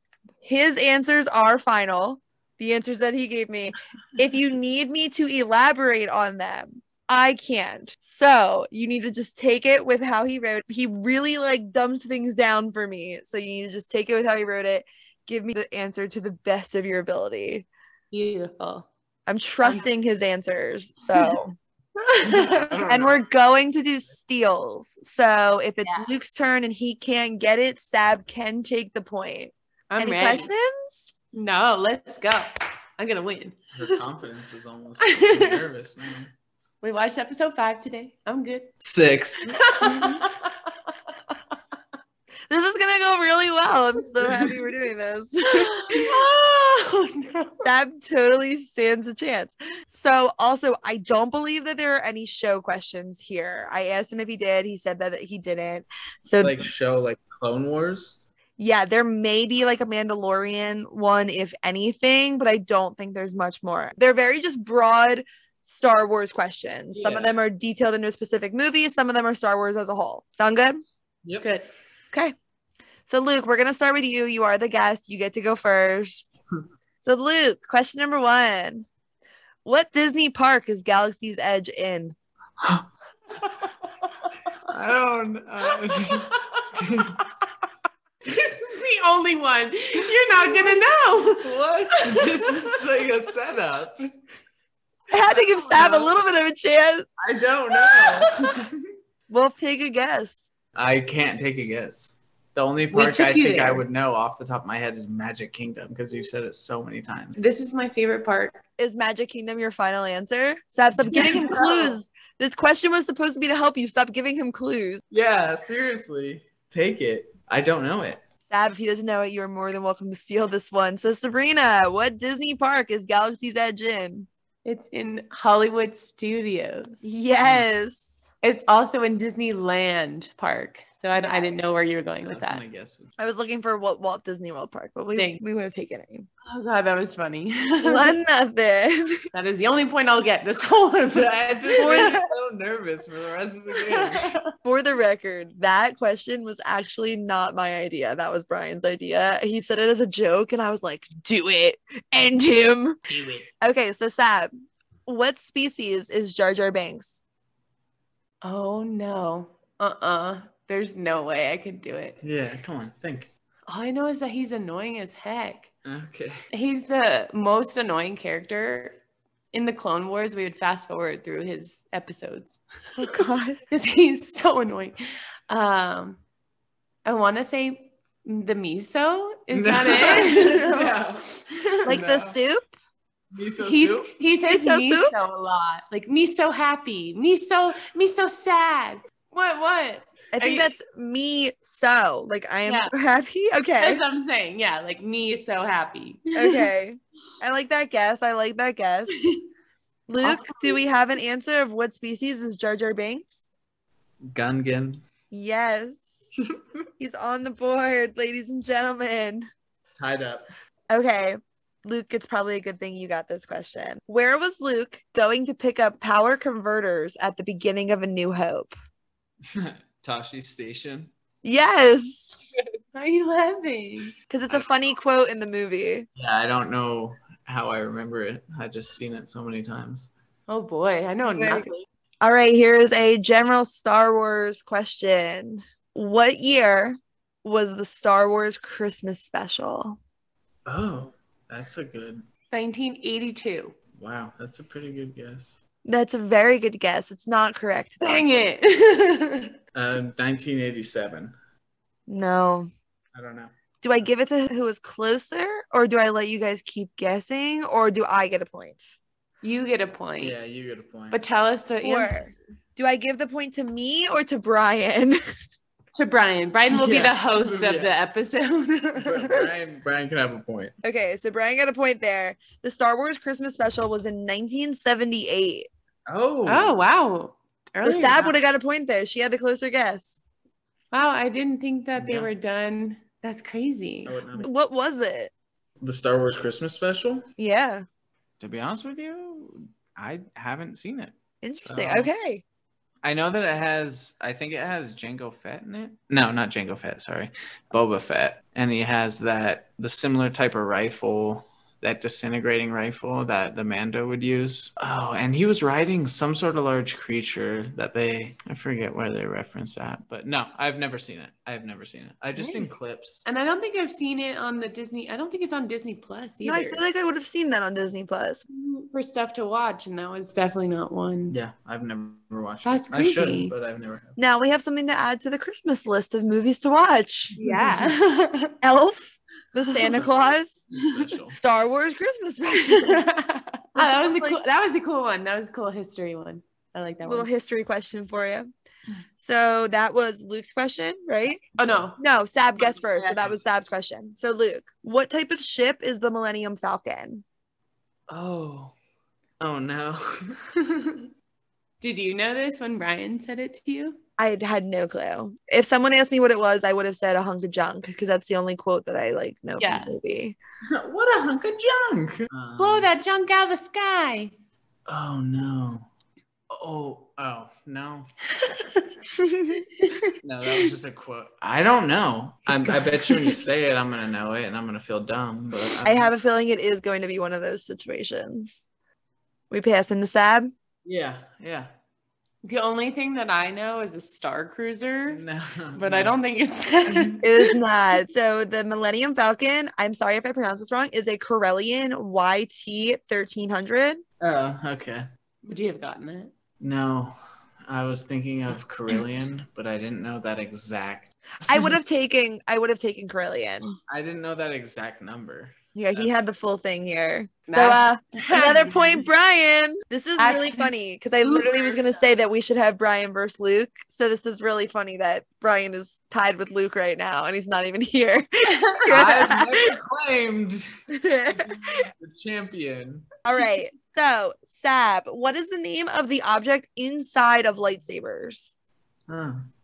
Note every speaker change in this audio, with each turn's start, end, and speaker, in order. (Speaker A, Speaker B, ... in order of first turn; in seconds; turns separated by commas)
Speaker A: 0.4-17.7, Speaker B: 18.1-18.9, Speaker A: 19.3-21.6, Speaker B: 22.0-22.7, Speaker C: 22.2-23.3, Speaker A: 22.8-31.1, Speaker B: 25.8-26.1, Speaker B: 29.9-30.5, Speaker B: 31.3-33.7, Speaker C: 33.7-36.3, Speaker B: 35.0-35.6, Speaker B: 36.8-38.7, Speaker C: 38.8-40.3, Speaker B: 39.5-40.9, Speaker A: 42.5-46.2, Speaker B: 45.5-47.7, Speaker A: 47.6-56.7, Speaker C: 56.4-58.2, Speaker A: 58.6-70.8, Speaker C: 66.9-67.3, Speaker B: 71.4-71.7, Speaker A: 73.1-76.3, Speaker A: 77.0-78.9, Speaker A: 79.6-82.2, Speaker C: 84.7-87.2, Speaker B: 86.0-86.7, Speaker B: 88.3-92.8, Speaker C: 91.3-94.1, Speaker A: 95.1-97.1, Speaker C: 95.3-96.1, Speaker C: 97.2-98.8, Speaker B: 97.8-98.5, Speaker A: 99.3-100.4, Speaker C: 100.7-107.3, Speaker B: 102.9-103.8, Speaker B: 107.4-108.6, Speaker A: 108.8-115.0, Speaker B: 111.1-112.0, Speaker C: 111.1-111.4, Speaker C: 115.1-118.2, Speaker A: 118.5-124.3, Speaker B: 124.6-127.0, Speaker A: 127.0-128.1, Speaker B: 128.4-132.6, Speaker A: 131.2-131.7, Speaker C: 132.2-133.1, Speaker A: 133.2-136.2, Speaker B: 135.2-135.4, Speaker B: 136.4-138.1, Speaker A: 137.8-139.2, Speaker B: 139.3-142.2, Speaker C: 141.1-144.3, Speaker A: 141.8-142.3, Speaker B: 143.8-144.5, Speaker A: 144.6-153.0, Speaker A: 153.6-154.5, Speaker A: 155.1-157.2, Speaker B: 158.4-162.2, Speaker C: 162.2-163.3, Speaker B: 163.7-165.7, Speaker C: 165.8-166.4, Speaker B: 166.5-168.9, Speaker B: 169.5-173.2, Speaker A: 173.0-173.6, Speaker B: 173.7-175.0, Speaker B: 175.5-176.2, Speaker B: 177.0-180.9, Speaker C: 179.5-182.4, Speaker B: 181.7-181.9, Speaker A: 181.8-182.7, Speaker C: 183.3-184.1, Speaker B: 183.6-190.7, Speaker A: 184.5-185.1, Speaker A: 190.3-194.0, Speaker B: 192.7-192.9, Speaker B: 193.8-196.7, Speaker A: 196.3-199.1, Speaker A: 200.1-203.5, Speaker B: 200.2-200.8, Speaker C: 204.3-205.0, Speaker A: 205.3-206.0, Speaker A: 207.0-209.4, Speaker C: 210.0-210.5, Speaker A: 210.9-218.7, Speaker C: 219.5-221.1, Speaker A: 221.4-222.5, Speaker B: 222.9-224.1, Speaker A: 224.3-226.1, Speaker C: 226.2-230.1, Speaker B: 230.5-231.8, Speaker A: 231.3-231.7, Speaker A: 232.2-240.0, Speaker C: 240.7-242.2, Speaker B: 242.5-243.8, Speaker C: 243.9-245.6, Speaker A: 245.8-248.2, Speaker B: 248.0-249.5, Speaker C: 249.7-251.3, Speaker A: 252.1-252.7, Speaker C: 253.1-253.5, Speaker A: 253.8-258.9, Speaker B: 259.4-260.4, Speaker C: 260.2-261.2, Speaker B: 261.1-262.3, Speaker A: 261.8-265.2, Speaker B: 265.9-269.5, Speaker C: 266.7-267.9, Speaker C: 269.0-270.7, Speaker A: 270.8-275.7, Speaker C: 276.1-276.8, Speaker B: 276.4-278.4, Speaker A: 277.8-280.3, Speaker B: 280.9-284.2, Speaker C: 281.9-282.3, Speaker C: 284.1-284.5, Speaker A: 284.4-285.3, Speaker C: 285.8-287.3, Speaker A: 287.4-287.8, Speaker C: 288.4-292.1, Speaker A: 291.4-292.4, Speaker C: 293.0-313.2, Speaker A: 312.4-312.7, Speaker B: 313.2-316.8, Speaker A: 316.4-318.4, Speaker B: 318.5-321.4, Speaker C: 321.3-324.1, Speaker B: 322.6-323.5, Speaker A: 324.2-327.4, Speaker B: 327.4-328.5, Speaker C: 327.4-327.9, Speaker A: 328.6-330.6, Speaker C: 330.7-331.4, Speaker A: 331.4-333.0, Speaker B: 332.6-337.3, Speaker A: 333.7-334.4, Speaker A: 337.0-338.5, Speaker A: 339.2-341.4, Speaker B: 341.5-342.0, Speaker A: 342.0-347.2, Speaker B: 342.6-343.3, Speaker C: 348.1-348.7, Speaker C: 349.4-350.4, Speaker B: 350.6-351.0, Speaker B: 351.8-354.0, Speaker A: 354.2-360.4, Speaker B: 359.6-359.9, Speaker C: 360.7-362.9, Speaker B: 362.6-364.3, Speaker C: 364.9-365.9, Speaker C: 366.5-368.1, Speaker B: 368.3-368.9, Speaker A: 369.2-369.6, Speaker B: 369.8-370.1, Speaker C: 370.2-376.1, Speaker B: 372.5-373.4, Speaker A: 375.8-378.6, Speaker A: 379.5-380.5, Speaker C: 380.8-381.7, Speaker B: 382.4-385.2, Speaker C: 385.1-386.2, Speaker B: 385.8-387.6, Speaker C: 386.9-387.1, Speaker A: 387.2-394.0, Speaker C: 394.2-395.1, Speaker B: 395.4-396.3, Speaker C: 396.6-397.1, Speaker C: 397.6-401.6, Speaker A: 401.5-403.8, Speaker C: 403.9-406.1, Speaker A: 405.7-419.7, Speaker B: 407.5-409.0, Speaker B: 410.2-410.7, Speaker B: 411.2-411.8, Speaker B: 418.5-419.0, Speaker C: 418.9-420.7, Speaker A: 420.9-421.9, Speaker C: 421.4-423.1, Speaker A: 423.2-428.5, Speaker C: 429.1-429.4